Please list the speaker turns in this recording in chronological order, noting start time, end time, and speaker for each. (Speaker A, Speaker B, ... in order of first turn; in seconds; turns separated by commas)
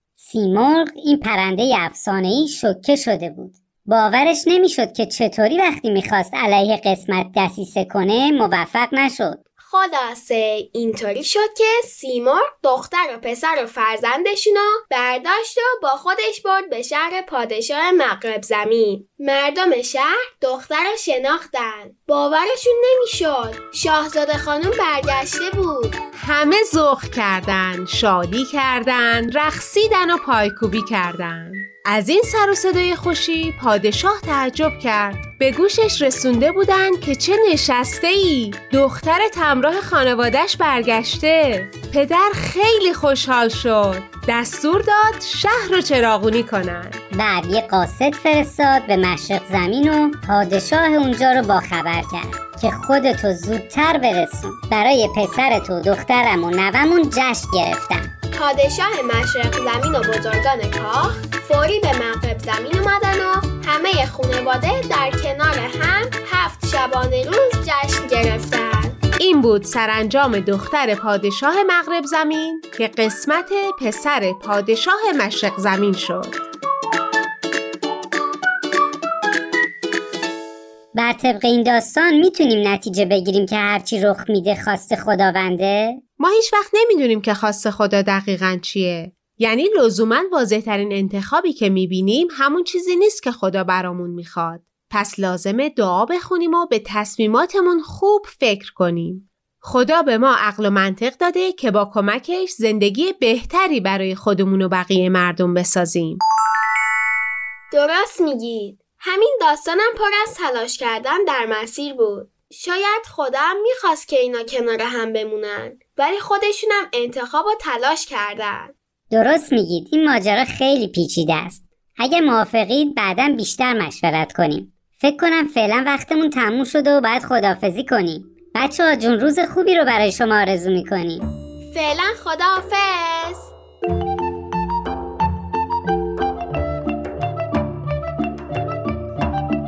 Speaker A: 0.2-9.4, Speaker B: 9.6-26.0, Speaker C: 26.1-47.0, Speaker A: 47.1-58.1, Speaker B: 58.3-69.0, Speaker C: 69.2-76.4, Speaker A: 80.9-86.0, Speaker C: 86.2-106.2, Speaker B: 107.7-118.7, Speaker A: 119.1-131.3, Speaker B: 131.7-133.5